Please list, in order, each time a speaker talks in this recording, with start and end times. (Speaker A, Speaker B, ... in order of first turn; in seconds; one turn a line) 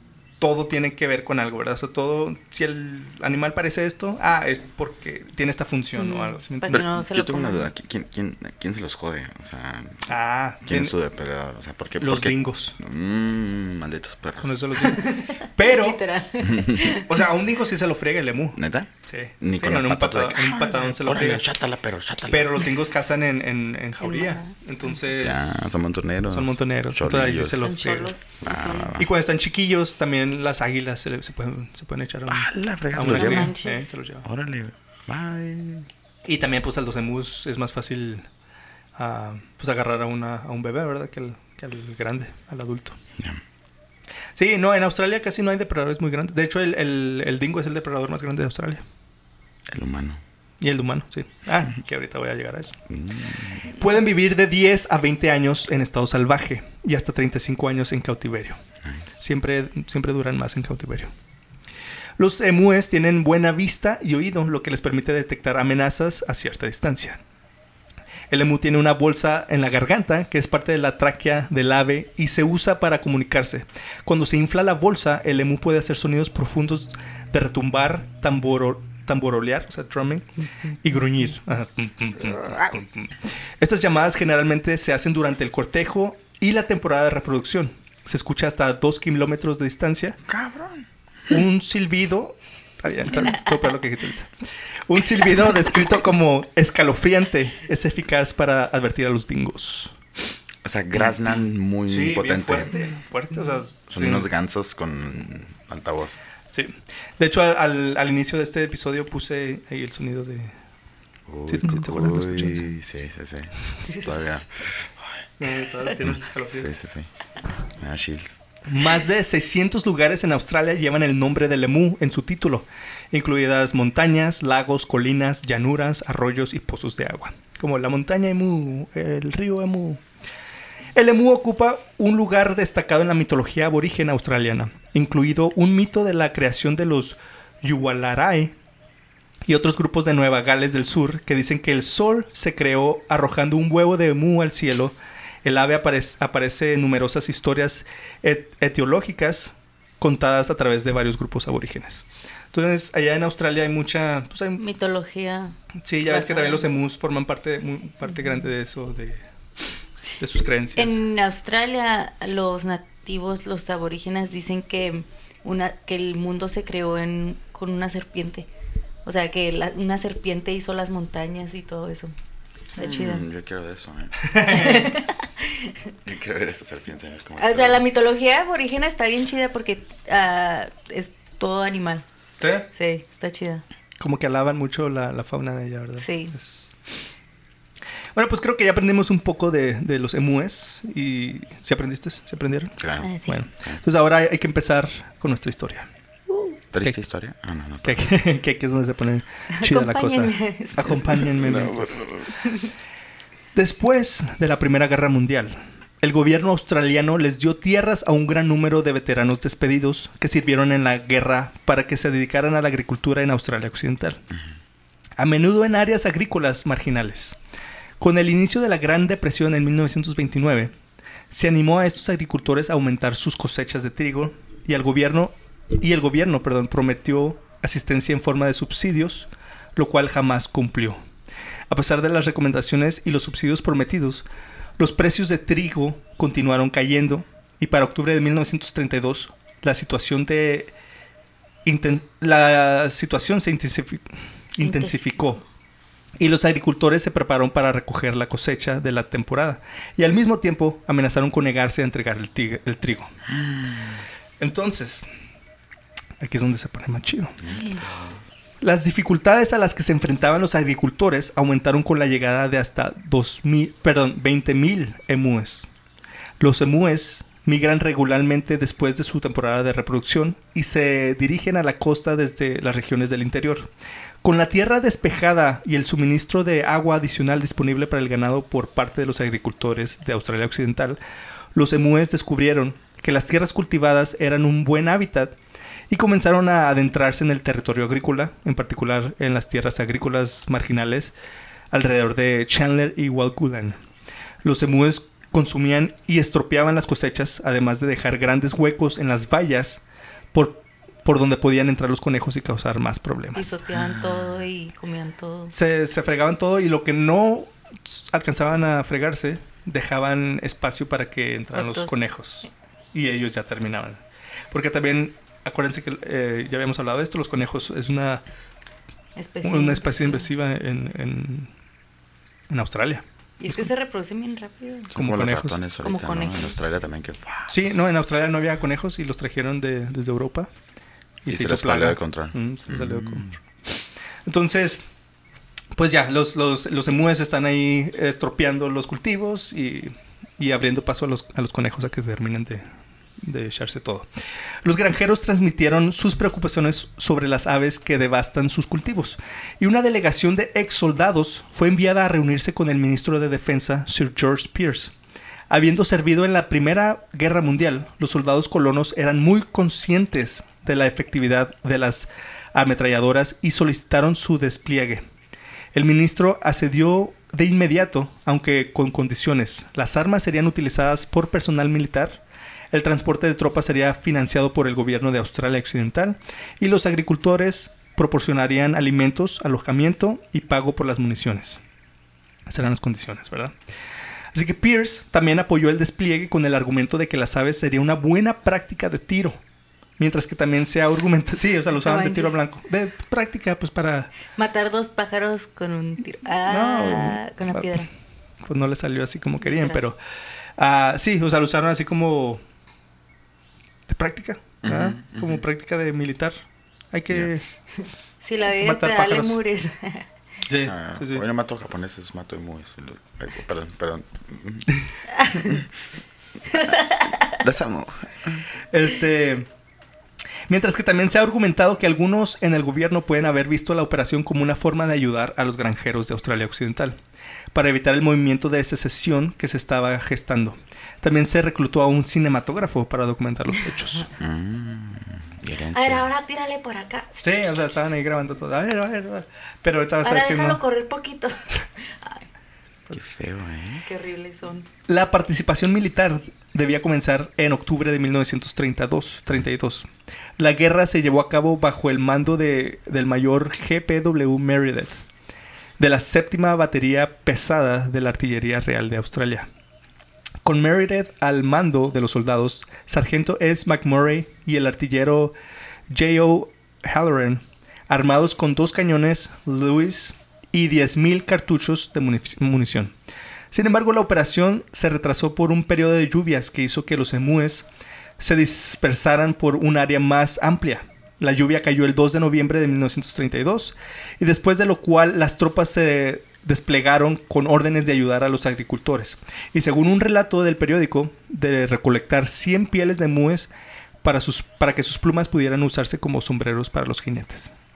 Speaker A: 0.4-6.8
Speaker B: 6.0-7.7
Speaker C: 6.7-10.1
Speaker A: 10.1-10.9
Speaker C: 10.6-14.9
Speaker A: 12.0-12.8
Speaker A: 14.4-16.0
Speaker B: 14.9-17.2
Speaker C: 16.4-16.8
Speaker A: 16.9-21.4
Speaker C: 18.6-22.7
Speaker A: 22.3-25.7
Speaker B: 24.0-24.5
Speaker C: 25.2-27.7
Speaker A: 26.3-28.1
Speaker B: 27.6-29.0
Speaker C: 28.4-29.1
Speaker A: 29.0-34.2
Speaker C: 32.3-33.5
Speaker B: 33.0-33.9
Speaker C: 34.2-35.9
Speaker A: 36.2-38.3
Speaker A: 39.0-43.0
Speaker A: 44.3-48.8
Speaker C: 49.7-50.2
Speaker A: 50.6-52.8
Speaker C: 52.9-53.7
Speaker A: 53.7-58.6
Speaker A: 59.2-61.1
Speaker A: 62.2-67.2
Speaker A: 68.3-80.3
Speaker A: 80.8-90.2
Speaker C: 90.3-90.8
Speaker A: 91.3-94.3
Speaker A: 94.9-100.0
Speaker C: 100.6-102.7
Speaker A: 101.9-104.3
Speaker C: 103.9-106.2
Speaker A: 106.5-110.5
Speaker C: 111.3-114.9
Speaker A: 111.5-112.8
Speaker B: 113.8-114.4
Speaker A: 115.4-116.7
Speaker C: 116.0-117.1
Speaker C: 117.8-118.4
Speaker A: 118.7-130.0
Speaker A: 130.9-138.5
Speaker A: 139.4-154.6
Speaker B: 154.6-156.7
Speaker A: 155.8-159.2
Speaker A: 160.2-161.0
Speaker B: 160.8-168.5
Speaker B: 169.0-172.1
Speaker B: 172.7-173.2
Speaker C: 172.8-174.7
Speaker A: 174.2-174.9
Speaker B: 174.4-175.7
Speaker C: 176.0-177.8
Speaker B: 177.4-182.0
Speaker A: 182.4-182.7
Speaker B: 182.7-183.6
Speaker A: 184.0-186.7
Speaker B: 186.0-186.3
Speaker A: 188.1-195.9
Speaker C: 192.8-193.8
Speaker B: 193.0-193.4
Speaker B: 196.3-196.6
Speaker C: 196.7-198.0
Speaker A: 197.8-202.1
Speaker B: 199.5-201.3
Speaker C: 201.2-202.3
Speaker A: 203.5-214.2
Speaker A: 215.2-217.4
Speaker A: 218.0-220.7
Speaker A: 221.3-231.0
Speaker A: 231.7-234.2
Speaker A: 234.8-240.7
Speaker A: 241.6-245.4
Speaker B: 244.6-245.2
Speaker A: 246.2-253.1
Speaker C: 253.3-254.0
Speaker A: 254.4-255.0
Speaker A: 256.2-257.4
Speaker C: 257.4-258.2
Speaker B: 257.5-257.8
Speaker A: 258.6-265.7
Speaker A: 266.4-273.7
Speaker A: 274.2-281.0
Speaker A: 281.5-285.3
Speaker A: 285.9-291.1
Speaker A: 291.7-293.8
Speaker A: 294.4-299.8
Speaker A: 300.3-303.5
Speaker B: 303.3-305.5
Speaker A: 305.5-318.2
Speaker B: 311.5-312.0
Speaker B: 319.1-320.3
Speaker A: 319.4-321.5
Speaker A: 322.5-323.7
Speaker B: 323.4-324.9
Speaker C: 324.9-327.7
Speaker A: 324.9-325.6
Speaker B: 325.8-326.6
Speaker A: 327.5-330.5
Speaker A: 331.2-333.4
Speaker C: 331.3-333.3
Speaker A: 334.2-334.8
Speaker A: 335.7-342.6
Speaker A: 343.2-344.1
Speaker A: 344.6-354.9
Speaker A: 355.5-365.0
Speaker A: 365.7-372.2
Speaker A: 372.7-381.6
Speaker A: 382.5-383.5
Speaker A: 384.3-389.4
Speaker A: 390.0-394.1
Speaker B: 391.8-392.4
Speaker B: 394.4-397.9
Speaker A: 396.4-397.9
Speaker A: 398.4-400.0
Speaker B: 399.4-399.8
Speaker A: 400.6-402.4
Speaker A: 403.9-407.4
Speaker C: 404.6-405.4
Speaker B: 408.2-410.1
Speaker A: 408.5-409.4
Speaker A: 410.5-411.2
Speaker C: 410.6-414.7
Speaker B: 415.1-415.5
Speaker C: 415.4-415.6
Speaker C: 416.5-418.4
Speaker B: 416.5-417.3
Speaker A: 418.7-419.5
Speaker A: 420.5-427.0
Speaker A: 427.5-434.1
Speaker C: 434.2-436.1
Speaker B: 435.7-437.6
Speaker A: 437.2-440.6
Speaker B: 440.0-442.2
Speaker C: 442.9-443.8
Speaker B: 443.8-444.7
Speaker A: 444.9-454.9
Speaker A: 455.8-459.5
Speaker A: 460.4-465.3
Speaker A: 465.9-472.9
Speaker A: 473.5-477.7
Speaker A: 478.2-493.5
Speaker A: 494.0-497.5